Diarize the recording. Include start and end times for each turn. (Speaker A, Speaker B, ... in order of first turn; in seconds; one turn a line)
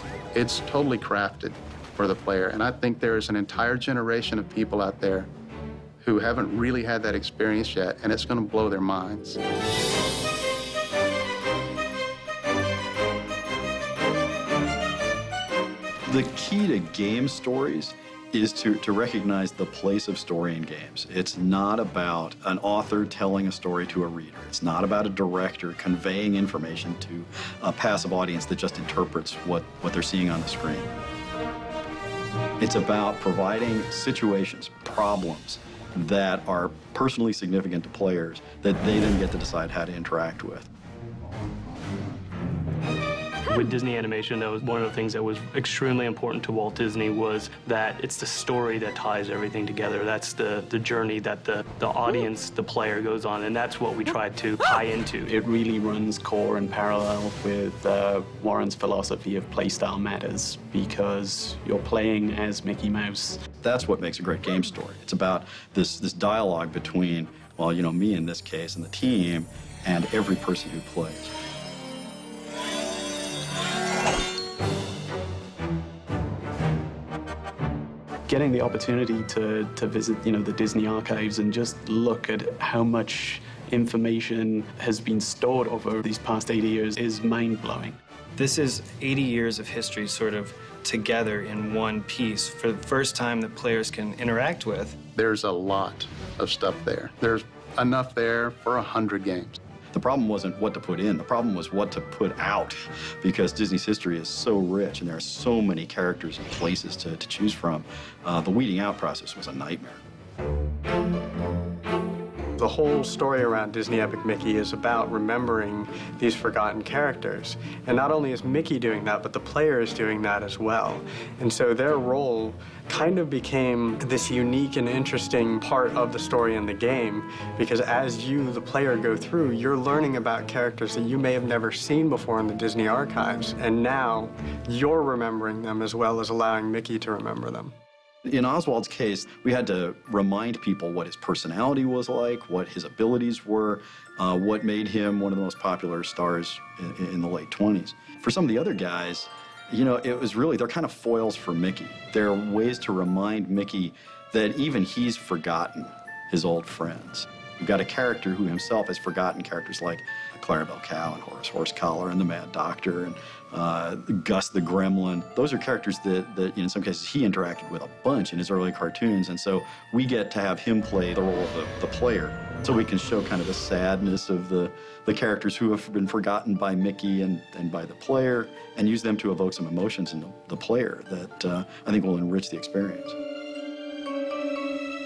Speaker A: 0.3-5.3
Speaker A: 6.0-9.4
Speaker B: 16.1-30.9
Speaker B: 32.6-40.7
Speaker C: 43.5-55.3
Speaker D: 55.3-63.4
Speaker B: 63.6-71.3
Speaker D: 78.3-88.0
Speaker E: 88.4-95.0
Speaker A: 95.2-99.6
Speaker B: 99.9-110.0
Speaker F: 112.6-137.7
Speaker B: 138.2-183.2